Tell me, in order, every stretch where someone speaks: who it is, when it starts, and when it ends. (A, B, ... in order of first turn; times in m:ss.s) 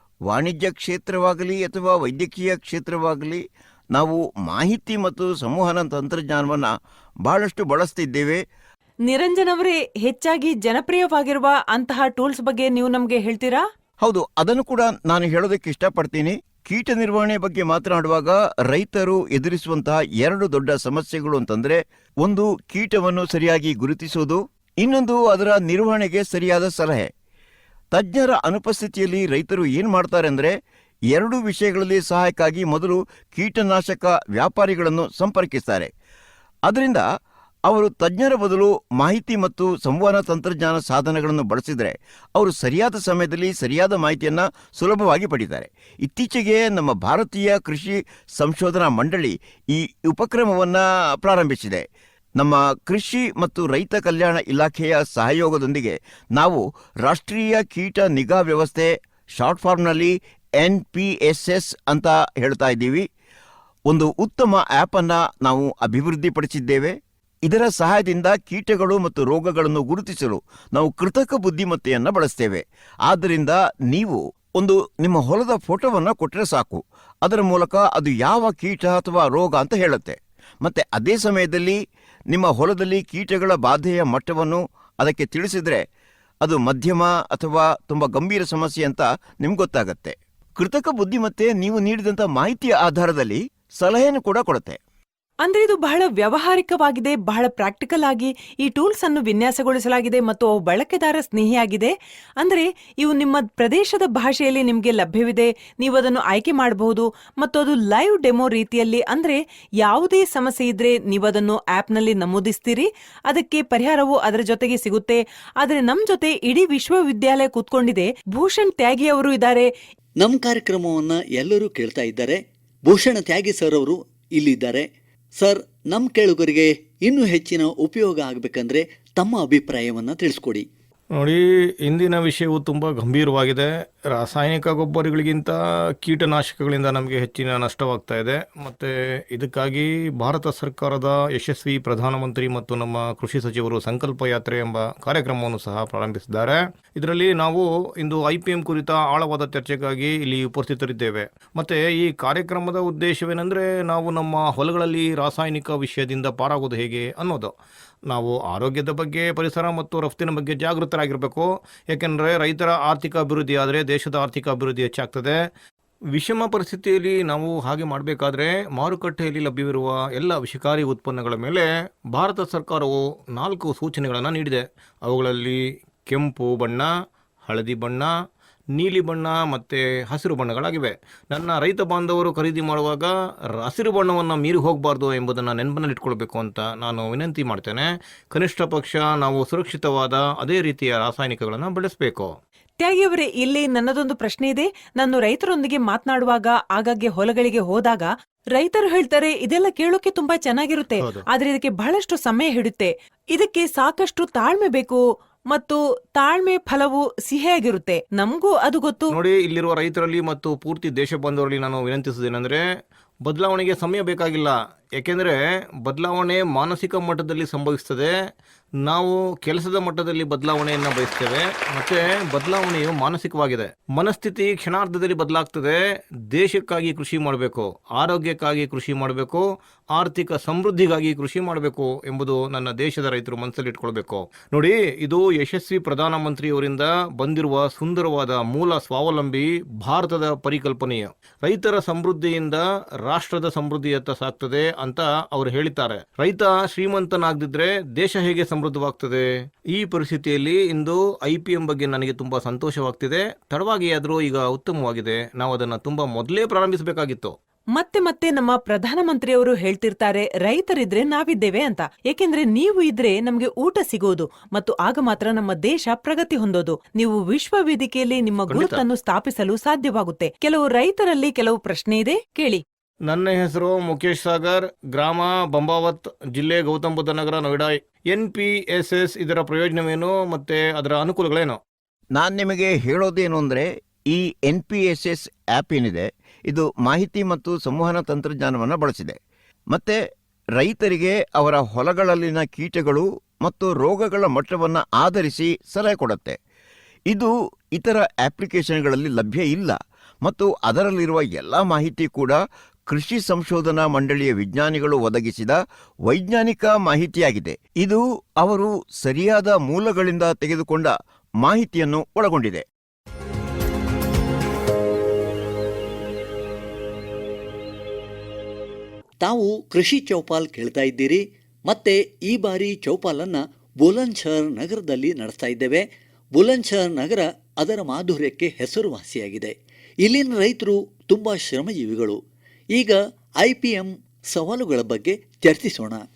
0:00.3-0:03.4 A
0:03.9-0:06.7 A
0:07.2-0:08.4 A
0:09.1-0:13.6 B
0:14.0-0:27.1 A
0:27.9-0:30.5 A
0:31.1-0:35.9 A
0:36.7-0:37.0 A
0:37.7-0:51.8 A
0:52.4-1:03.0 A
1:03.9-1:06.9 A
1:07.5-1:21.8 A
1:22.3-1:25.8 A
1:26.4-1:34.8 A
1:35.4-1:59.7 B
2:00.2-2:04.8 C
2:05.4-2:10.6 C
2:11.2-2:37.5 D
2:38.1-2:45.3 D
2:46.1-2:56.9 D
2:57.5-2:58.1 D
2:58.8-3:12.3 D
3:12.8-3:25.0 B
3:21.0-3:21.2 D
3:25.5-3:29.2 B
3:29.1-3:32.6 D
3:33.2-3:38.1 D
3:38.8-3:45.8 D
3:46.3-4:17.3 D
4:17.8-4:32.6 B
4:28.5-4:28.8 D
4:33.1-4:41.6 D
4:42.2-4:49.2 A
4:49.7-4:50.0 A
4:50.6-4:56.4 A
4:57.1-5:02.4 A
5:02.9-5:12.6 A
5:19.2-5:25.8 C
5:26.4-5:32.2 C
5:32.8-5:36.0 C